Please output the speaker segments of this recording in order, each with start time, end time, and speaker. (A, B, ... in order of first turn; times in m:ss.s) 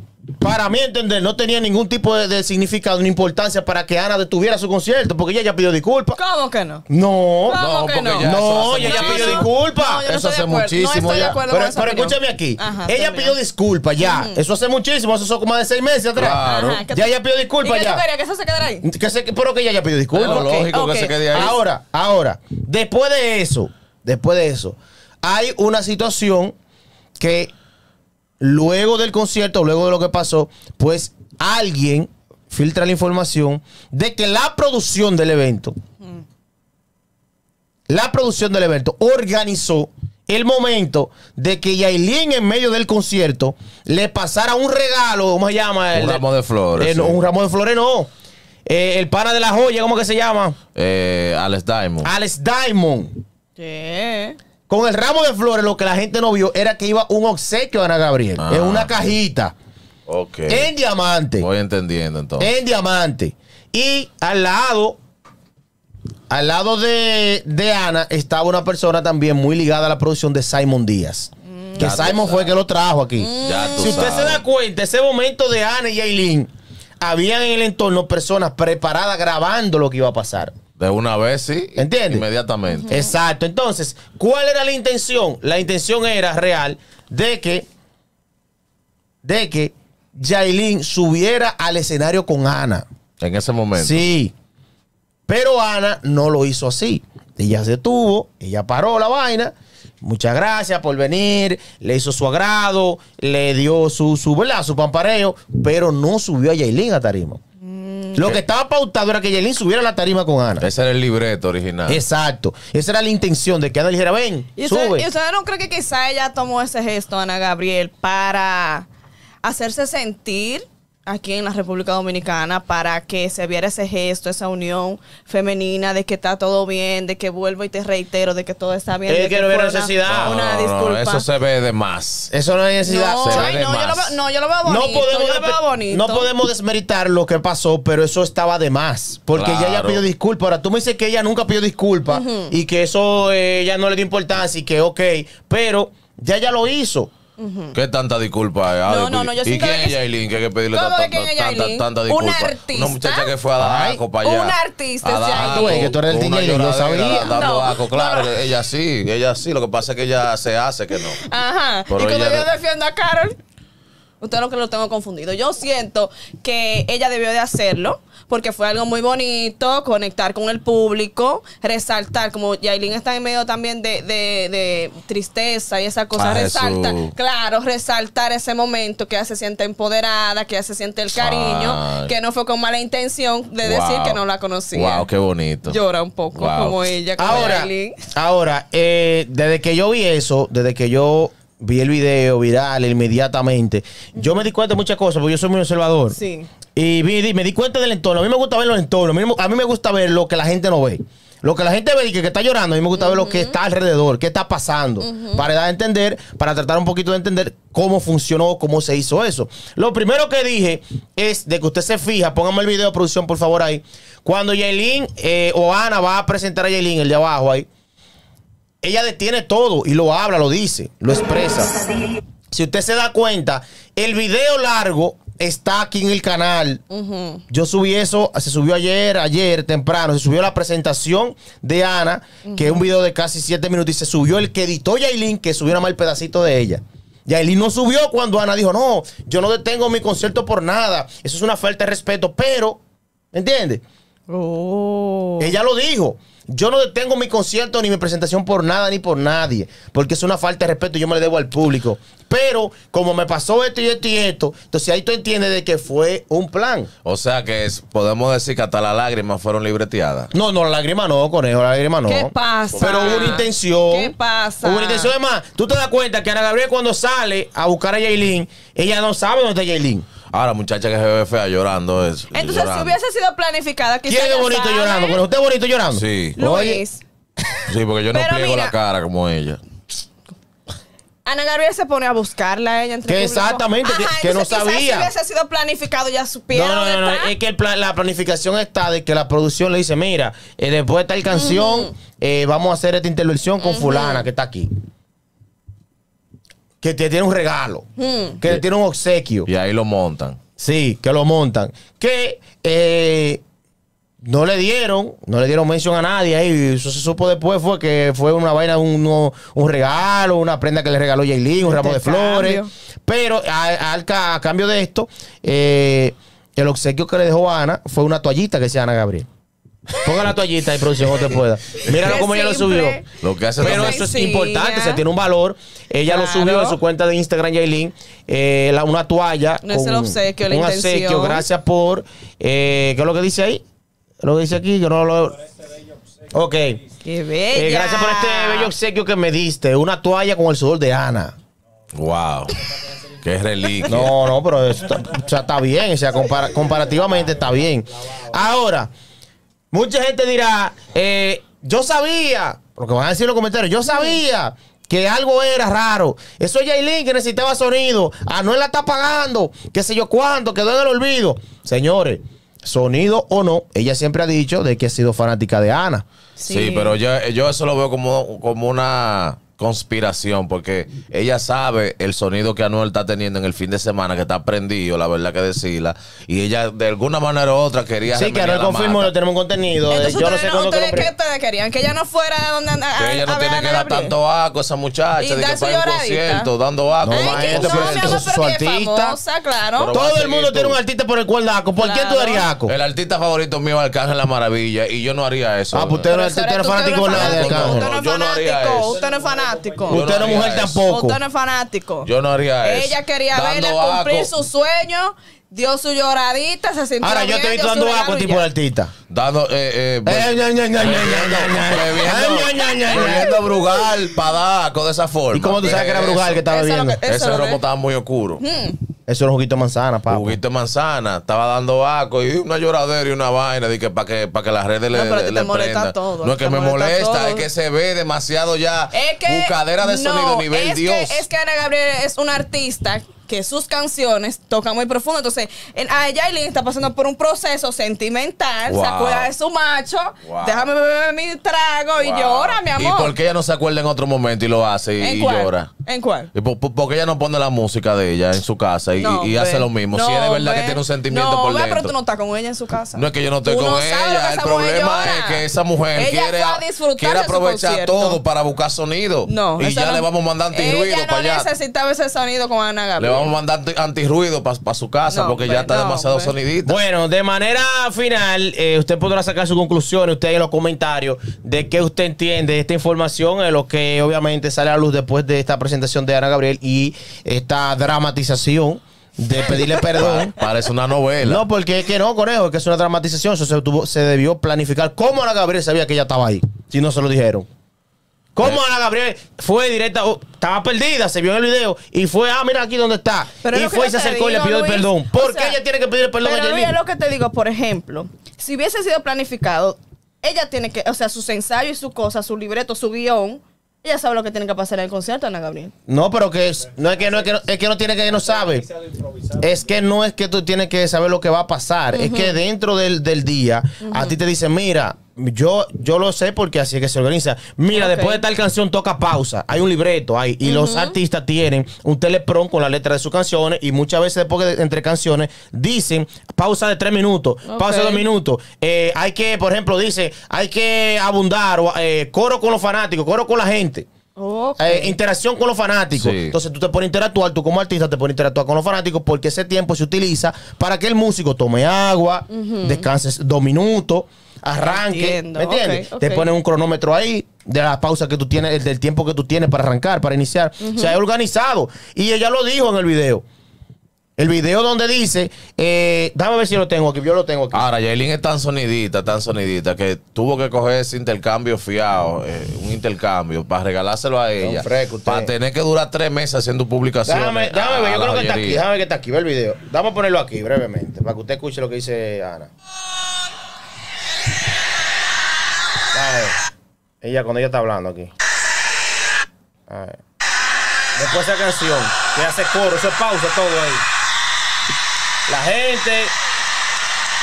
0:00.4-0:06.2 A
0:06.1-0:06.8 B
0:06.9-0:07.6 A
0:07.4-0:13.4 B
0:07.5-0:09.5 C
0:08.2-0:10.0 A
0:10.0-0:11.4 C
0:11.4-0:18.0 A
0:14.0-0:14.4 B
0:16.1-0:16.8 C
0:16.4-0:18.8 B
0:18.8-0:20.5 A
0:20.1-0:21.6 C
0:20.2-0:21.5 B
0:21.3-0:26.5 A
0:27.2-0:27.5 A
0:28.4-0:35.7 A
0:37.9-0:46.2 A
0:45.9-0:47.2 C
0:46.8-0:48.1 A
0:48.6-0:50.6 A
0:50.7-0:52.1 C
0:52.0-0:53.2 A
0:53.6-0:54.4 B
0:54.7-0:59.5 A
0:58.4-0:58.9 C
1:00.1-1:00.7 C
1:00.5-1:01.5 A
1:01.4-1:02.5 C
1:02.4-1:05.0 A
1:06.3-1:20.5 A
1:11.6-1:12.2 B
1:11.8-1:12.6 C
1:13.2-1:14.1 B
1:13.4-1:14.4 C
1:20.8-1:23.0 C
1:21.8-1:22.2 A
1:22.7-1:23.1 B
1:22.9-1:27.6 A
1:29.2-1:32.8 A
1:33.2-1:34.0 C
1:33.7-1:34.3 A
1:35.3-1:47.4 A
1:47.6-1:48.3 B
1:48.1-1:50.7 A
1:50.6-1:52.0 C
1:51.8-1:55.1 A
1:54.6-1:58.9 B
1:59.4-2:11.3 B
2:09.1-2:10.3 A
2:10.0-2:12.3 C
2:12.3-2:13.6 A
2:12.8-2:16.3 B
2:13.2-2:14.2 C
2:14.6-2:27.1 A
2:19.3-2:20.0 C
2:22.1-2:22.5 B
2:27.4-2:27.8 B
2:27.7-2:41.2 C
2:28.8-2:30.0 B
2:30.7-2:33.3 B
2:33.6-2:34.0 A
2:34.2-2:35.9 B
2:35.3-2:37.4 A
2:37.0-2:38.4 B
2:41.2-2:43.4 B
2:41.9-2:42.5 C
2:44.2-3:05.1 B
2:56.2-2:57.1 C
3:01.2-3:02.1 C
3:03.6-3:05.8 C
3:05.6-3:08.0 B
3:06.3-3:07.5 C
3:07.2-3:16.2 A
3:16.1-3:16.5 B
3:16.7-3:37.7 A
3:23.0-3:23.6 B
3:25.0-3:25.4 B
3:38.8-3:41.8 A
3:42.5-3:46.8 A
3:46.9-3:47.4 B
3:47.5-4:02.8 A
3:52.4-3:52.8 B
4:03.3-4:03.8 A
4:04.3-4:05.5 B
4:05.4-4:16.9 A
4:17.0-4:20.3 C
4:20.3-4:30.0 A
4:22.0-4:25.1 B
4:22.7-4:23.5 C
4:30.3-4:32.9 C
4:32.3-4:35.2 B
4:34.0-4:36.8 A
4:35.9-4:36.4 C
4:36.4-4:37.0 B
4:37.7-4:39.6 C
4:38.1-4:38.7 B
4:41.2-4:47.3 B
4:43.0-4:45.1 A
4:46.5-4:54.7 A
4:51.3-4:51.9 B
4:53.6-4:54.3 B
4:56.8-4:57.8 A
4:58.0-4:58.4 B
4:58.4-4:59.5 A
4:59.4-5:00.4 C
5:00.6-5:03.4 A
5:04.2-5:19.3 A
5:11.6-5:12.7 B
5:20.0-5:23.0 A
5:21.9-5:23.0 B
5:23.2-5:24.0 C
5:23.6-5:33.6 A
5:23.6-5:25.0 B
5:26.0-5:26.8 B
5:29.6-5:31.4 B
5:34.2-5:35.4 A
5:36.3-5:36.8 A
5:37.0-5:38.7 B
5:37.5-5:41.3 A
5:41.9-5:44.2 C
5:43.8-5:48.9 A
5:49.7-6:06.0 A
6:06.4-6:07.0 B
6:06.5-6:19.1 C
6:18.1-6:21.1 A
6:19.9-6:24.1 B
6:23.0-6:28.2 C
6:25.2-6:26.5 B
6:27.0-6:29.2 A
6:27.1-6:29.9 B
6:29.8-6:30.8 C
6:29.9-6:32.7 A
6:31.8-6:32.5 B
6:32.7-6:36.1 C
6:35.7-6:37.9 A
6:36.1-6:40.2 B
6:37.1-6:39.0 C
6:39.9-6:40.8 C
6:39.9-6:41.2 A
6:40.8-6:48.5 B
6:42.0-6:44.3 C
6:47.0-6:48.9 A
6:49.1-6:56.4 C
6:50.0-6:53.8 A
6:52.5-6:53.3 B
6:55.3-6:57.0 A
6:56.4-6:57.6 B
6:57.0-6:58.4 C
6:58.4-6:58.8 B
6:59.1-7:00.4 A
7:00.1-7:11.2 C
7:04.9-7:07.5 B
7:08.9-7:23.2 B
7:18.6-7:19.3 C
7:20.2-7:20.7 C
7:22.0-7:25.7 C
7:25.0-7:26.3 B
7:26.3-7:31.9 C
7:29.0-7:38.2 B
7:32.9-7:41.5 C
7:39.2-7:43.3 B
7:43.0-7:46.8 C
7:45.1-7:46.3 B
7:46.6-8:00.4 A
7:59.7-8:01.4 C
8:01.2-8:07.5 A
8:08.3-8:16.8 A
8:13.4-8:15.6 B
8:16.2-8:25.7 B
8:25.9-8:28.7 A
8:29.3-8:53.9 A
8:31.9-8:32.4 B
8:33.8-8:34.2 B
8:37.7-8:38.2 B
8:40.4-8:40.9 B
8:47.4-8:48.0 B
8:54.2-8:55.0 B
8:54.6-9:13.2 A
8:55.9-8:56.3 C
9:02.3-9:02.8 B
9:04.6-9:06.3 B
9:10.6-9:11.0 B
9:14.2-9:17.6 A
9:17.5-9:28.6 C
9:24.4-9:25.3 A
9:27.0-9:32.5 A
9:35.9-9:36.4 A
9:37.0-9:38.1 A
9:39.7-9:40.0 A
9:40.9-9:43.8 A
9:45.3-9:46.1 A